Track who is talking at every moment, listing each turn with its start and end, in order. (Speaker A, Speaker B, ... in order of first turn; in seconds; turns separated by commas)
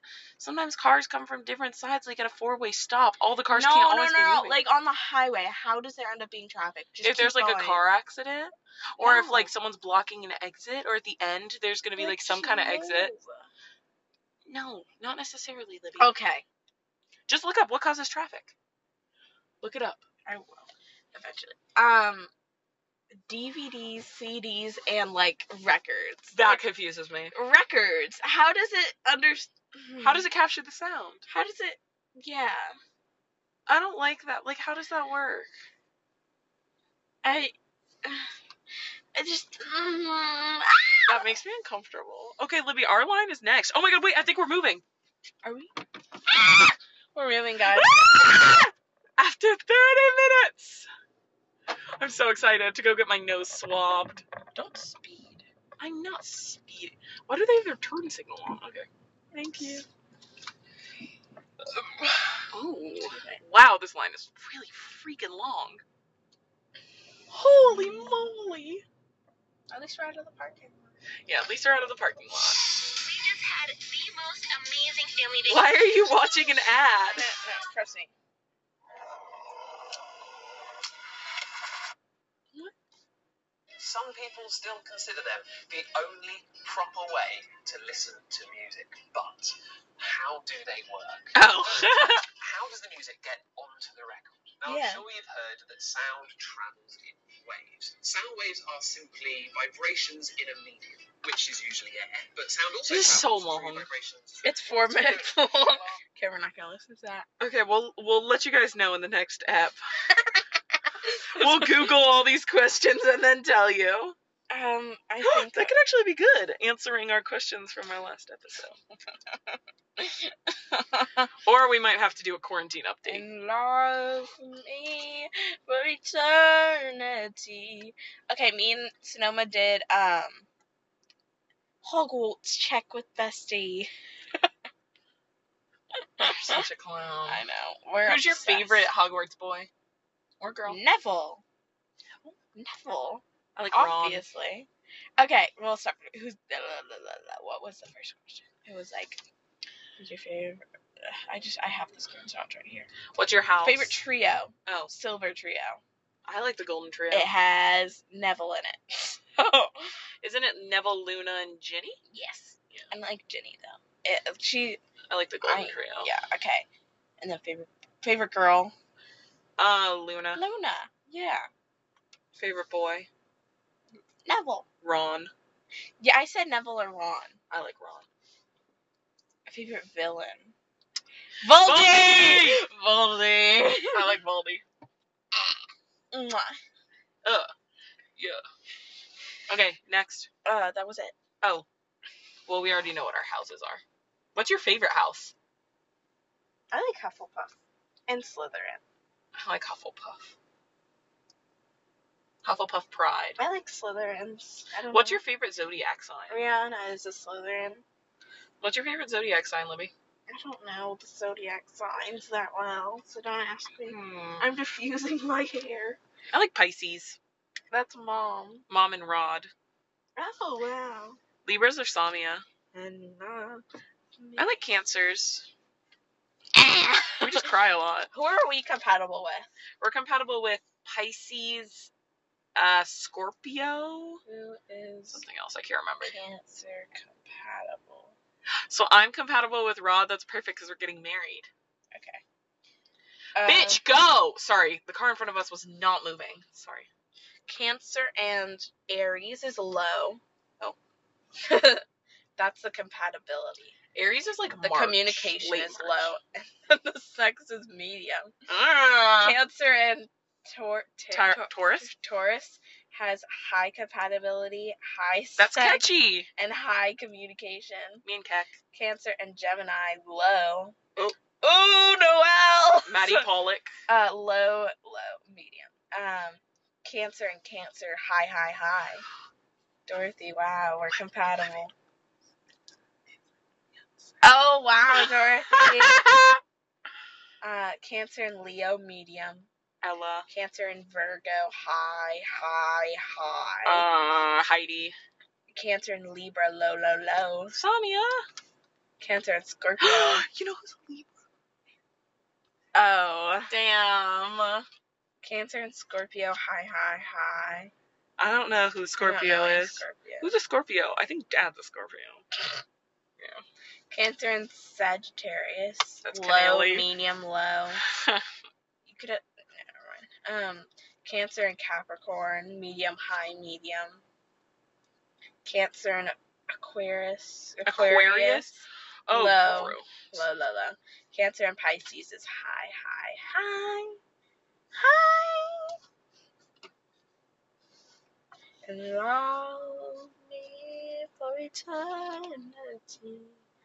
Speaker A: 0.4-4.6, Speaker B: 3.5-7.8, Speaker A: 7.0-13.1, Speaker B: 9.0-9.5, Speaker B: 12.0-13.5, Speaker A: 14.5-16.1, Speaker B: 16.0-16.4, Speaker A: 17.3-18.5, Speaker A: 19.6-20.0, Speaker B: 20.3-22.3, Speaker B: 23.3-26.6, Speaker A: 26.3-27.3, Speaker B: 27.3-30.3, Speaker A: 30.0-31.2, Speaker B: 31.3-32.8, Speaker A: 33.7-35.5, Speaker B: 37.2-38.3, Speaker B: 39.1-41.3, Speaker A: 41.1-44.8, Speaker B: 45.4-45.7, Speaker B: 47.1-48.0, Speaker A: 47.7-50.9, Speaker A: 52.0-59.8, Speaker B: 59.3-59.9, Speaker A: 61.7-65.8, Speaker B: 63.0-63.4, Speaker A: 67.3-68.8, Speaker B: 69.7-70.9, Speaker A: 71.3-72.6, Speaker C: 72.8-76.1, Speaker A: 75.5-77.3, Speaker B: 77.1-78.1, Speaker D: 83.8-106.0, Speaker A: 91.3-92.2, Speaker B: 94.7-95.0, Speaker A: 102.9-103.9, Speaker B: 104.4-107.3, Speaker A: 107.4-109.8, Speaker B: 111.2-111.9, Speaker A: 111.3-114.2, Speaker B: 114.5-115.8, Speaker A: 115.2-118.8, Speaker B: 120.0-121.3, Speaker A: 121.5-123.2, Speaker B: 123.1-130.5, Speaker B: 131.8-134.5, Speaker B: 136.2-136.6, Speaker A: 136.2-137.4, Speaker B: 137.3-138.9, Speaker A: 138.0-139.7, Speaker A: 140.4-140.8, Speaker B: 140.7-141.4, Speaker B: 142.5-149.2, Speaker A: 143.6-144.2, Speaker B: 150.0-152.9, Speaker A: 153.1-154.0, Speaker B: 153.6-155.8, Speaker A: 156.3-157.3, Speaker B: 157.1-159.9, Speaker A: 160.2-162.0, Speaker B: 162.1-164.8, Speaker A: 165.1-166.1, Speaker B: 165.4-166.7, Speaker B: 167.2-168.7, Speaker A: 169.6-170.4, Speaker B: 170.4-171.5, Speaker A: 172.3-173.1, Speaker B: 174.2-174.7, Speaker A: 174.8-175.3, Speaker B: 176.0-177.4, Speaker A: 177.5-178.1, Speaker B: 179.5-180.5, Speaker B: 181.4-184.1, Speaker A: 181.6-182.6, Speaker A: 183.9-184.6, Speaker B: 186.1-186.6, Speaker A: 187.2-187.5, Speaker A: 188.2-188.4, Speaker A: 189.5-190.3, Speaker B: 190.4-191.2, Speaker A: 192.5-193.8, Speaker A: 194.3-195.3, Speaker B: 196.7-198.8, Speaker A: 199.3-200.3, Speaker A: 202.4-203.4, Speaker B: 203.4-205.2, Speaker A: 204.9-206.4, Speaker B: 206.3-207.8, Speaker A: 208.6-209.9, Speaker B: 210.3-216.0, Speaker A: 213.9-214.5, Speaker A: 216.3-217.2, Speaker B: 217.7-218.7, Speaker A: 218.7-219.5, Speaker B: 220.2-221.2, Speaker A: 221.4-222.4, Speaker B: 222.7-223.6, Speaker B: 224.2-224.5, Speaker A: 224.4-225.5, Speaker B: 226.6-227.5, Speaker A: 227.2-228.1, Speaker B: 228.1-229.5, Speaker A: 229.8-231.9, Speaker A: 232.6-234.2, Speaker B: 234.3-235.2, Speaker A: 235.1-236.2, Speaker B: 236.1-238.2, Speaker A: 238.7-241.5, Speaker B: 241.9-242.2, Speaker B: 243.3-243.8, Speaker A: 243.4-246.9, Speaker B: 247.5-250.2, Speaker B: 251.4-251.8, Speaker B: 252.4-253.8, Speaker A: 253.9-256.1, Speaker B: 254.6-258.3, Speaker A: 258.5-259.4, Speaker B: 259.2-268.1, Speaker A: 261.1-261.9, Speaker A: 265.4-266.3, Speaker A: 268.1-268.5, Speaker B: 268.7-273.3, Speaker A: 272.9-273.7, Speaker B: 273.9-279.1, Speaker B: 279.9-281.7, Speaker B: 284.2-286.0, Speaker A: 285.5-286.4, Speaker B: 287.4-289.5, Speaker A: 289.8-290.3, Speaker B: 290.3-293.9, Speaker A: 293.6-295.0, Speaker B: 295.5-297.6, Speaker A: 297.5-298.2, Speaker B: 299.0-300.2, Speaker A: 299.8-301.1, Speaker B: 302.7-303.5, Speaker A: 303.5-304.6, Speaker B: 305.2-307.7, Speaker A: 308.2-312.2, Speaker B: 309.0-310.3, Speaker B: 313.9-317.8, Speaker A: 316.1-316.9, Speaker A: 317.8-318.2, Speaker B: 318.9-324.0, Speaker B: 325.4-334.0, Speaker A: 327.6-328.6, Speaker A: 329.1-330.2, Speaker B: 334.8-335.8, Speaker B: 338.6-343.4